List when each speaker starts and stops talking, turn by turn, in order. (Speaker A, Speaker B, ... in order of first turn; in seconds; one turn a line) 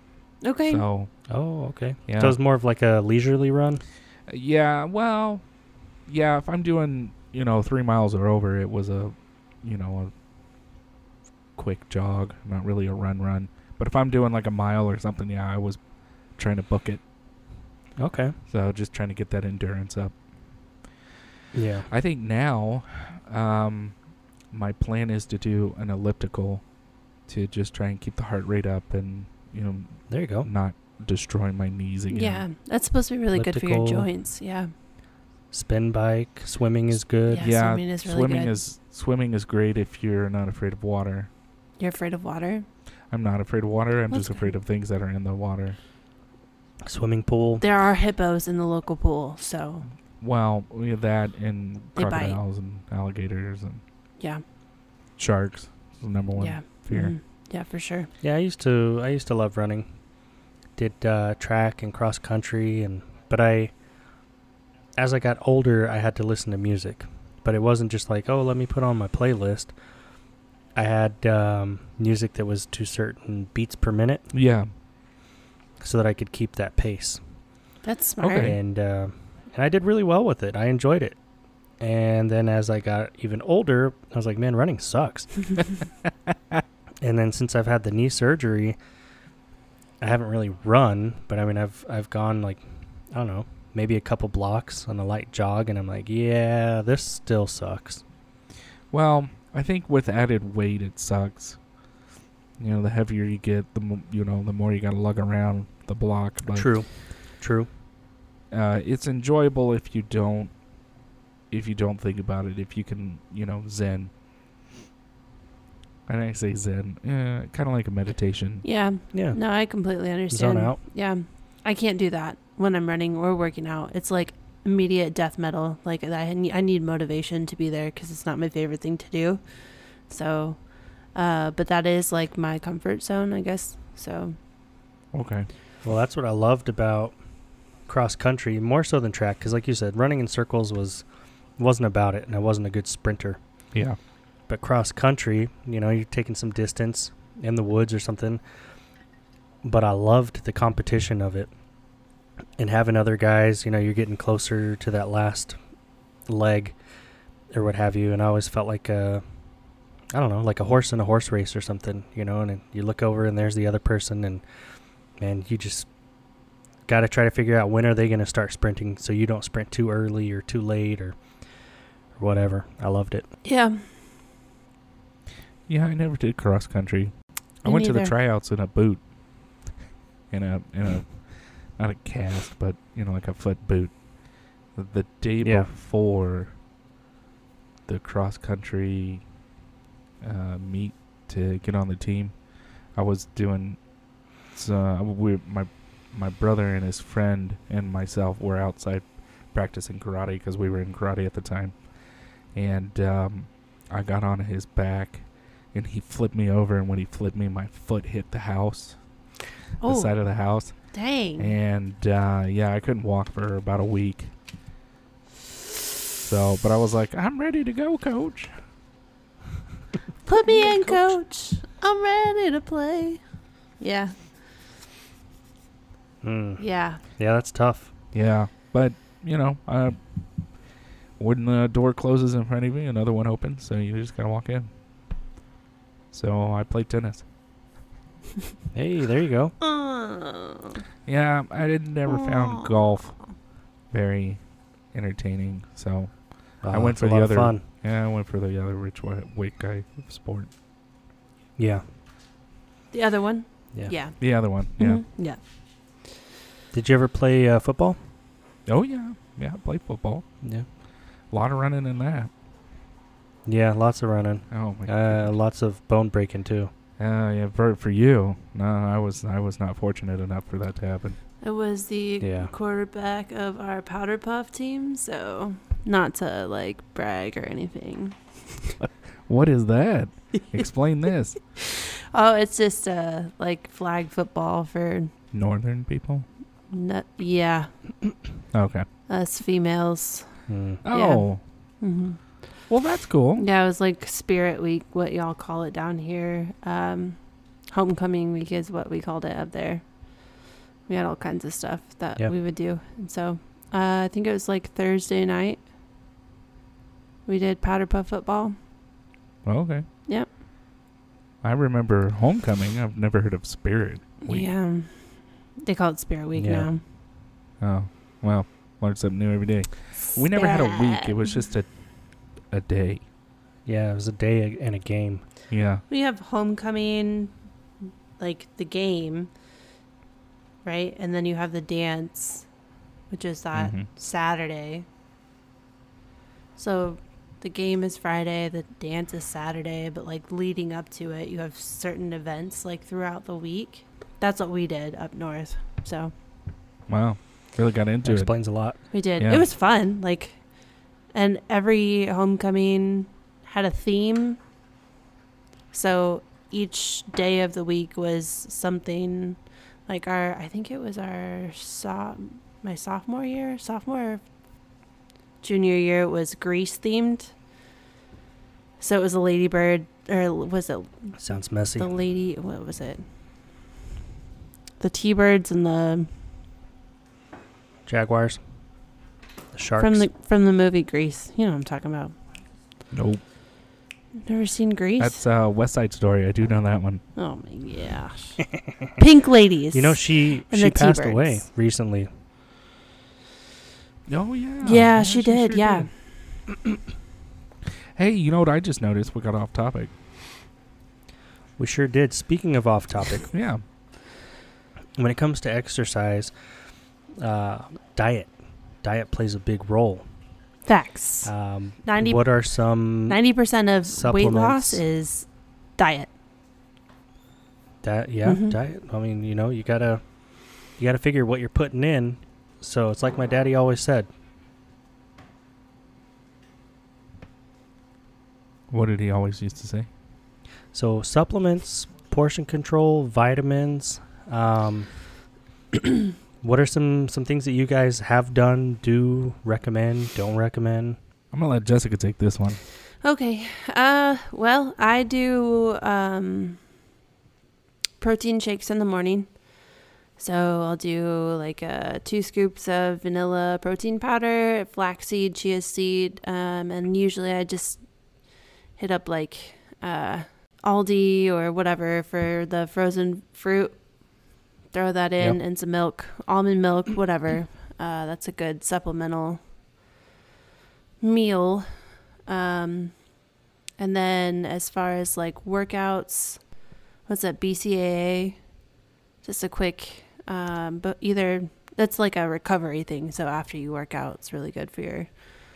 Speaker A: 0.4-0.8
Speaker B: 0.7-1.1
Speaker C: 1.3-3.8
Speaker B: 2.1-2.4
Speaker B: 4.3-5.4
Speaker B: 6.1-10.1
Speaker B: 11.6-15.8
Speaker B: 16.4-17.0
Speaker C: 18.0-18.4
Speaker B: 18.5-20.1
Speaker C: 21.5-21.9
Speaker B: 21.9-23.9
Speaker B: 24.5-26.6
Speaker B: 27.3-32.4
Speaker C: 30.1-30.5
Speaker A: 32.1-34.7
Speaker C: 33.3-34.1
Speaker C: 35.5-37.5
Speaker A: 37.3-38.6
Speaker B: 37.4-41.3
Speaker A: 41.8-42.7
Speaker B: 43.1-45.8
Speaker A: 44.1-44.5
Speaker C: 46.9-47.6
Speaker A: 47.6-49.9
Speaker B: 50.2-53.8
Speaker A: 52.0-52.4
Speaker B: 55.2-57.1
Speaker A: 56.4-58.1
Speaker C: 58.2-59.9
Speaker C: 60.8-63.7
Speaker C: 65.0-69.7
Speaker C: 70.8-74.3
Speaker B: 74.3-74.7
Speaker C: 75.8-77.2
Speaker A: 77.8-78.5
Speaker B: 78.2-78.6
Speaker C: 78.4-81.2
Speaker C: 81.8-85.5
Speaker B: 86.3-86.6
Speaker C: 87.0-88.8
Speaker C: 90.0-98.0
Speaker B: 98.9-101.6
Speaker B: 102.6-106.7
Speaker C: 106.5-106.9
Speaker C: 107.4-107.7
Speaker B: 108.5-110.5
Speaker B: 111.5-114.1
Speaker B: 116.1-118.7
Speaker A: 118.6-134.4
Speaker C: 120.3-120.8
Speaker B: 135.1-135.5
Speaker C: 135.8-137.2
Speaker C: 137.9-141.0
Speaker C: 141.6-143.4
Speaker C: 144.5-148.4
Speaker C: 149.6-151.5
Speaker C: 152.6-155.6
Speaker C: 156.3-156.8
Speaker C: 157.5-159.2
Speaker C: 160.1-164.4
Speaker C: 165.2-165.9
Speaker C: 166.9-171.2
Speaker C: 172.2-173.3
Speaker A: 173.4-173.9
Speaker B: 175.7-177.1
Speaker B: 177.6-179.0
Speaker A: 177.7-178.1
Speaker B: 180.3-181.2
Speaker B: 181.8-183.9
Speaker B: 184.8-186.5
Speaker C: 185.4-185.7
Speaker B: 187.9-189.2
Speaker B: 190.2-192.3
Speaker B: 192.9-193.8
Speaker B: 194.5-201.8
Speaker B: 202.5-209.0
Speaker A: 209.8-210.1
Speaker B: 209.8-210.8
Speaker A: 210.9-211.5
Speaker B: 211.4-214.3
Speaker B: 216.2-218.6
Speaker A: 220.2-223.2
Speaker A: 223.8-224.2
Speaker C: 226.2-227.9
Speaker A: 226.6-227.0
Speaker B: 228.1-230.0
Speaker B: 231.2-234.7
Speaker B: 236.1-237.2
Speaker C: 238.7-239.6
Speaker A: 239.6-240.8
Speaker B: 241.1-243.2
Speaker A: 242.1-242.8
Speaker B: 243.9-244.4
Speaker B: 244.9-250.5
Speaker C: 246.6-247.6
Speaker C: 251.6-251.8
Speaker A: 252.9-254.2
Speaker B: 254.2-255.0
Speaker A: 254.8-255.4
Speaker C: 256.7-258.0
Speaker B: 258.7-260.2
Speaker B: 261.3-262.3
Speaker C: 263.5-266.7
Speaker B: 264.5-265.3
Speaker B: 267.0-271.2
Speaker A: 271.4-278.7
Speaker C: 272.2-272.5
Speaker B: 278.8-281.4
Speaker A: 281.6-285.1
Speaker B: 285.3-286.3
Speaker A: 286.7-287.7
Speaker B: 288.5-288.9
Speaker A: 289.1-291.3
Speaker C: 290.5-290.8
Speaker B: 290.8-291.4
Speaker A: 291.8-292.2
Speaker B: 292.7-293.4
Speaker A: 293.4-305.7
Speaker A: 307.3-308.6
Speaker B: 309.4-309.9
Speaker B: 311.4-314.5
Speaker A: 314.2-316.8
Speaker C: 316.4-316.7
Speaker B: 317.6-321.7
Speaker A: 320.3-321.4
Speaker B: 322.5-323.0
Speaker C: 323.7-325.2
Speaker B: 325.5-325.8
Speaker A: 325.9-327.4
Speaker A: 328.2-329.3
Speaker A: 330.6-332.5
Speaker A: 333.1-334.9
Speaker B: 333.5-333.9
Speaker A: 336.6-346.1
Speaker B: 346.9-348.3
Speaker C: 348.0-348.8
Speaker A: 348.9-350.4
Speaker B: 349.2-349.5
Speaker A: 351.1-354.4
Speaker A: 355.7-364.2
Speaker A: 365.4-367.3
Speaker A: 368.8-371.2
Speaker C: 371.2-371.9
Speaker A: 371.8-373.0
Speaker A: 374.8-376.1
Speaker C: 377.9-378.4
Speaker C: 379.5-380.1
Speaker A: 379.8-382.1
Speaker B: 382.9-383.2
Speaker A: 384.2-385.2
Speaker B: 385.0-387.0
Speaker A: 387.2-388.4
Speaker A: 389.0-391.4
Speaker C: 389.7-392.1
Speaker B: 394.1-395.9
Speaker A: 394.6-395.9
Speaker B: 398.0-399.9
Speaker C: 401.6-403.3
Speaker B: 403.3-403.6
Speaker C: 405.0-406.3
Speaker C: 407.2-408.3
Speaker C: 408.8-410.1
Speaker A: 410.7-411.3
Speaker C: 411.2-413.2
Speaker A: 411.8-412.2
Speaker A: 413.1-416.1
Speaker C: 413.9-414.8
Speaker C: 417.8-420.0
Speaker A: 418.2-418.6
Speaker C: 420.8-424.1
Speaker B: 428.7-429.9
Speaker C: 430.7-434.9
Speaker C: 436.4-441.0
Speaker B: 441.3-442.6
Speaker A: 443.0-446.6
Speaker A: 448.0-449.4
Speaker A: 450.2-457.8
Speaker A: 458.8-469.4
Speaker A: 471.0-473.0
Speaker A: 473.8-476.4
Speaker A: 477.1-478.4
Speaker A: 479.2-485.3